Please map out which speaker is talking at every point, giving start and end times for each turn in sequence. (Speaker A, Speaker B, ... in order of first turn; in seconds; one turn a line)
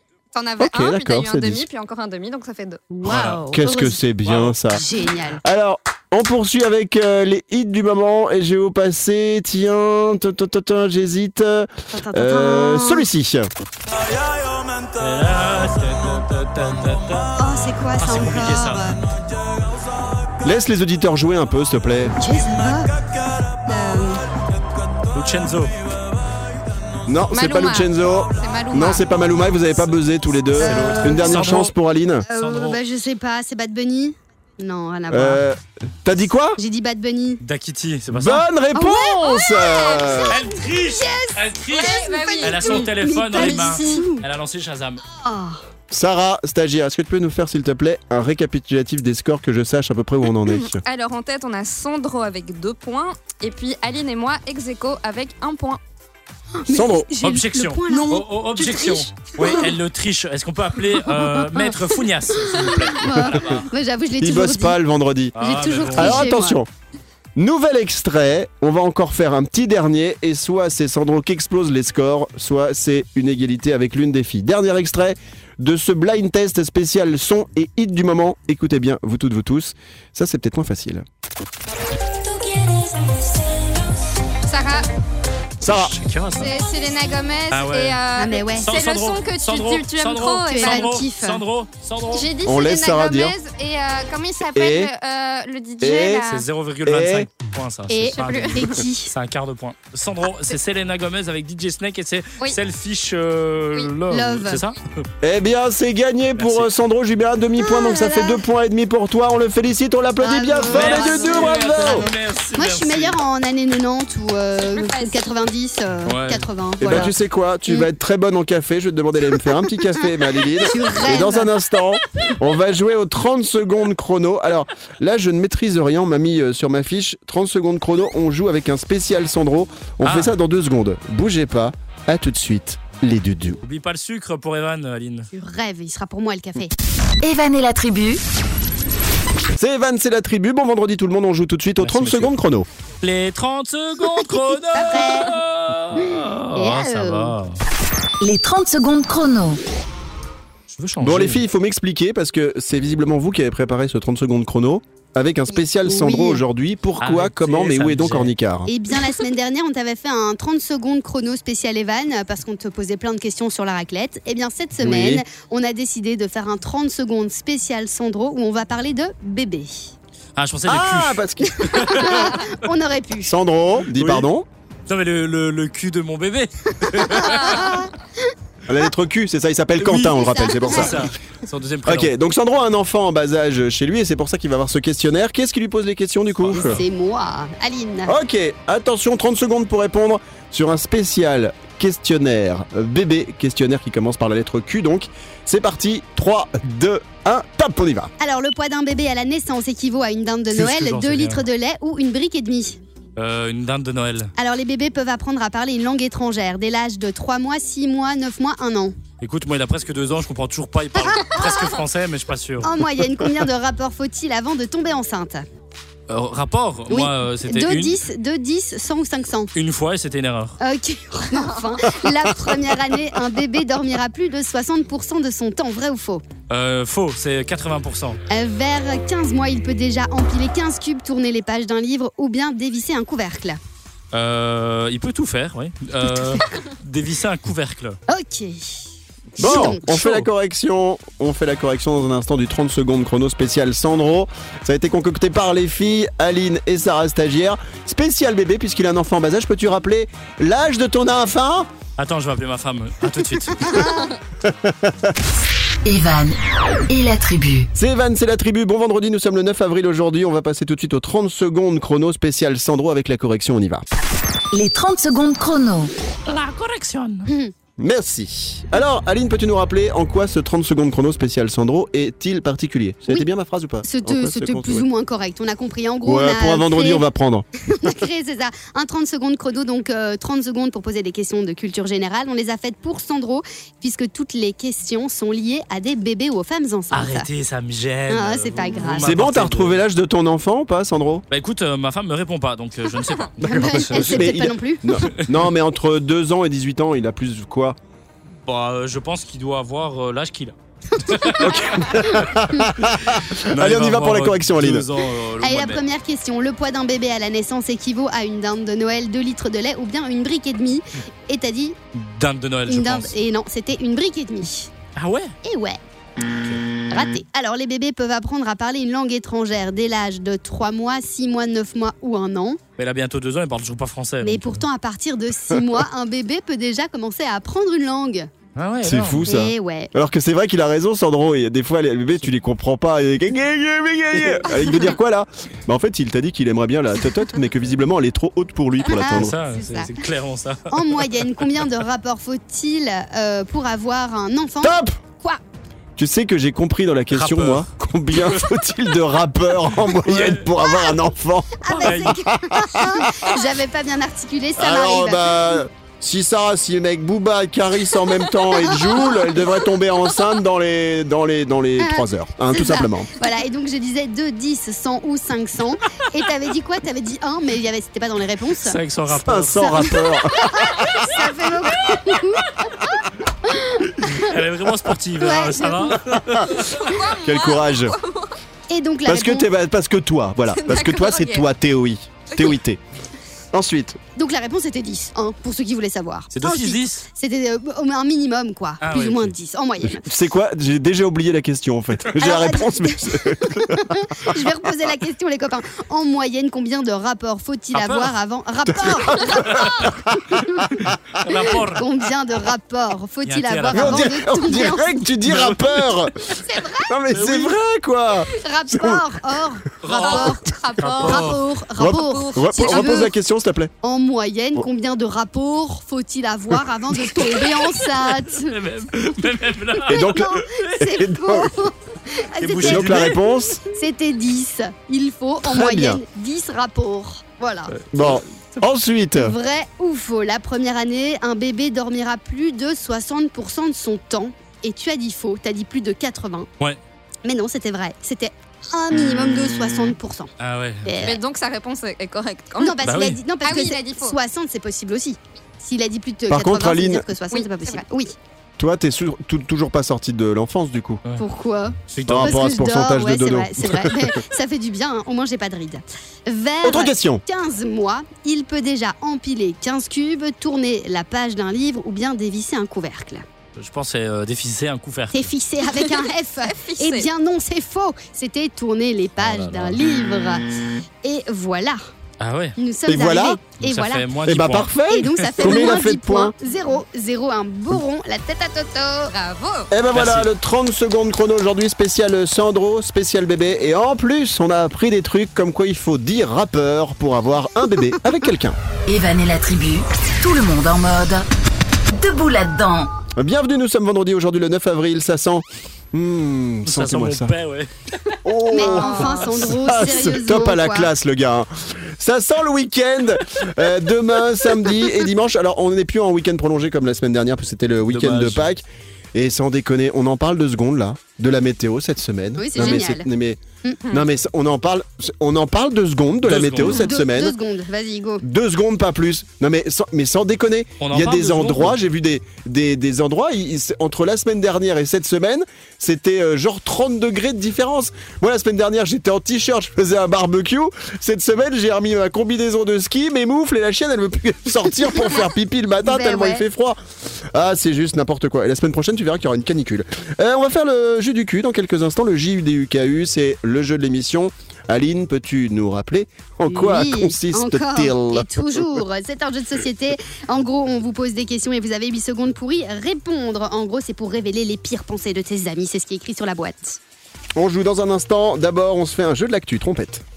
Speaker A: 0.3-2.8
Speaker B: 0.6-1.6
Speaker C: 2.9-4.0
Speaker D: 3.0-3.4
Speaker B: 3.5-4.8
Speaker D: 4.2-4.6
Speaker C: 4.7-5.4
Speaker B: 5.4-13.5
Speaker C: 11.9-13.1
Speaker D: 14.9-17.4
Speaker C: 17.4-19.0
Speaker D: 18.0-18.9
Speaker B: 20.4-22.2
Speaker C: 22.2-22.9
Speaker C: 23.6-24.2
Speaker D: 25.1-25.7
Speaker B: 27.0-32.2
Speaker A: 27.3-29.1
Speaker D: 30.6-31.7
Speaker C: 30.6-31.4
Speaker C: 32.3-35.4
Speaker D: 32.3-32.8
Speaker B: 35.1-36.6
Speaker C: 36.6-37.4
Speaker D: 37.4-38.5
Speaker B: 38.1-40.4
Speaker C: 38.7-44.2
Speaker D: 40.3-45.0
Speaker A: 41.7-44.0
Speaker C: 45.1-45.6
Speaker B: 45.9-50.8
Speaker A: 50.4-55.8
Speaker C: 56.6-59.7
Speaker B: 56.7-57.1
Speaker D: 57.2-63.7
Speaker C: 61.2-61.8
Speaker C: 62.4-64.8
Speaker B: 64.2-65.4
Speaker D: 65.3-66.3
Speaker C: 65.3-66.6
Speaker B: 65.9-66.7
Speaker B: 67.3-81.0
Speaker A: 84.4-84.9
Speaker B: 85.6-85.9
Speaker D: 85.6-86.5
Speaker A: 86.3-90.9
Speaker D: 87.5-88.0
Speaker C: 88.2-88.7
Speaker D: 88.6-92.3
Speaker C: 90.4-91.4
Speaker A: 92.1-96.4
Speaker B: 92.4-93.3
Speaker B: 94.5-94.9
Speaker B: 95.8-96.2
Speaker D: 96.2-104.8
Speaker B: 96.8-97.3
Speaker C: 97.9-99.1
Speaker A: 97.9-98.8
Speaker C: 104.1-104.6
Speaker B: 105.2-112.1
Speaker D: 106.4-106.7
Speaker C: 107.6-108.4
Speaker C: 110.2-117.1
Speaker D: 110.7-113.2
Speaker A: 114.6-115.2
Speaker D: 116.0-117.0
Speaker B: 116.8-133.6
Speaker C: 120.6-121.5
Speaker D: 130.0-130.3
Speaker D: 133.6-135.3
Speaker C: 135.3-136.7
Speaker E: 137.2-138.2
Speaker B: 139.6-142.7
Speaker D: 141.8-142.4
Speaker D: 143.0-147.6
Speaker C: 144.7-145.3
Speaker C: 146.0-147.3
Speaker E: 148.2-149.6
Speaker D: 150.7-151.4
Speaker B: 151.0-158.7
Speaker C: 155.8-156.4
Speaker D: 157.0-158.3
Speaker C: 158.7-169.9
Speaker B: 164.8-165.2
Speaker D: 170.4-172.6
Speaker B: 170.7-171.8
Speaker C: 171.6-173.3
Speaker B: 173.2-174.5
Speaker D: 173.9-174.3
Speaker D: 174.9-177.8
Speaker C: 176.8-177.9
Speaker B: 178.7-181.1
Speaker D: 179.8-182.1
Speaker C: 180.0-181.1
Speaker B: 181.8-186.8
Speaker D: 186.4-186.8
Speaker C: 186.6-188.1
Speaker B: 188.1-198.1
Speaker C: 198.2-202.8
Speaker D: 200.5-201.4
Speaker D: 203.2-204.3
Speaker C: 204.4-208.9
Speaker D: 209.2-212.7
Speaker C: 211.0-211.6
Speaker C: 212.6-215.4
Speaker D: 216.1-218.0
Speaker C: 216.9-219.5
Speaker D: 219.5-220.6
Speaker C: 220.6-226.2
Speaker D: 226.5-228.2
Speaker C: 228.3-233.6
Speaker D: 234.1-238.0
Speaker C: 238.1-238.8
Speaker B: 239.3-251.7
Speaker C: 239.4-240.2
Speaker D: 239.4-239.7
Speaker D: 252.0-253.9
Speaker C: 253.6-254.1
Speaker B: 254.4-255.1
Speaker E: 255.8-257.7
Speaker B: 257.7-263.8
Speaker E: 264.5-265.9
Speaker D: 266.2-267.3
Speaker C: 267.3-267.5
Speaker B: 267.8-274.8
Speaker C: 273.8-277.1
Speaker B: 276.0-277.4
Speaker C: 277.6-287.3
Speaker D: 286.9-289.8
Speaker C: 288.1-289.1
Speaker B: 289.0-291.2
Speaker D: 291.3-294.2
Speaker C: 293.4-295.0
Speaker B: 293.4-297.8
Speaker D: 298.5-302.3
Speaker C: 300.9-302.7
Speaker B: 301.4-304.9
Speaker D: 303.1-305.8
Speaker C: 305.4-311.8
Speaker D: 311.9-313.1
Speaker C: 312.7-314.7
Speaker D: 314.9-315.3
Speaker C: 315.4-315.8
Speaker D: 316.4-316.6
Speaker C: 316.9-322.6
Speaker D: 322.8-324.6
Speaker C: 324.2-328.3
Speaker D: 328.6-329.3
Speaker B: 328.8-339.3
Speaker C: 329.2-329.9
Speaker C: 338.9-339.9
Speaker D: 339.0-341.2
Speaker C: 340.7-345.4
Speaker B: 344.6-345.0
Speaker B: 346.0-353.4
Speaker D: 347.1-348.6
Speaker D: 349.8-350.5
Speaker C: 351.6-355.6
Speaker D: 351.7-352.2
Speaker B: 354.6-363.1
Speaker C: 358.6-359.5
Speaker C: 361.8-368.8
Speaker D: 368.6-370.0
Speaker B: 369.1-370.9
Speaker C: 369.6-374.3
Speaker D: 371.6-372.7
Speaker D: 374.0-377.0
Speaker C: 375.2-376.0
Speaker B: 376.3-376.5
Speaker A: 376.8-378.3
Speaker B: 377.1-377.9
Speaker C: 378.7-379.5
Speaker B: 379.1-382.8
Speaker A: 380.5-381.4
Speaker B: 383.5-384.0
Speaker C: 384.1-390.1
Speaker D: 386.3-387.0
Speaker D: 388.8-389.3
Speaker B: 389.8-394.4
Speaker C: 392.1-400.7
Speaker D: 397.7-398.1
Speaker B: 399.1-399.9
Speaker D: 399.2-399.9
Speaker D: 401.2-401.9
Speaker C: 401.3-405.1
Speaker D: 403.2-404.2
Speaker B: 403.7-409.0
Speaker D: 405.2-406.0
Speaker C: 406.4-406.9
Speaker D: 407.1-407.6
Speaker C: 408.4-413.1
Speaker D: 409.8-411.4
Speaker A: 410.5-411.3
Speaker B: 411.8-413.7
Speaker A: 411.9-412.9
Speaker C: 413.8-418.6
Speaker D: 417.4-420.8
Speaker B: 419.9-421.5
Speaker C: 420.0-423.1
Speaker D: 422.4-423.2
Speaker B: 422.6-423.6
Speaker C: 423.7-427.8
Speaker B: 425.4-426.0
Speaker D: 427.7-428.6
Speaker B: 427.9-429.3
Speaker C: 429.1-436.5
Speaker C: 437.2-440.3
Speaker D: 440.4-441.1
Speaker C: 440.8-441.2
Speaker A: 441.0-442.8
Speaker C: 442.6-448.1
Speaker D: 442.8-443.2
Speaker A: 443.4-444.1
Speaker B: 446.3-447.0
Speaker A: 447.3-447.8
Speaker B: 448.6-451.0
Speaker C: 451.1-463.2
Speaker D: 451.9-452.4
Speaker B: 452.1-454.2
Speaker B: 456.6-457.2
Speaker D: 463.6-465.3
Speaker C: 465.1-471.8
Speaker A: 466.5-467.1
Speaker D: 469.2-469.8
Speaker D: 472.2-472.6
Speaker C: 472.6-474.1
Speaker B: 472.9-473.4
Speaker D: 473.6-475.8
Speaker B: 474.2-476.3
Speaker C: 474.9-479.1
Speaker A: 479.1-479.7
Speaker B: 479.7-488.6
Speaker D: 479.9-480.3
Speaker E: 488.9-491.3
Speaker E: 491.9-492.9
Speaker B: 493.1-497.3
Speaker D: 496.6-498.2
Speaker B: 498.2-517.4
Speaker C: 498.5-500.9
Speaker A: 498.7-499.0
Speaker D: 507.9-508.5
Speaker C: 512.4-513.0
Speaker D: 516.2-516.8
Speaker C: 516.7-518.2
Speaker B: 518.2-548.6
Speaker D: 520.8-521.8
Speaker C: 535.8-536.5
Speaker C: 546.5-556.8
Speaker B: 557.4-560.0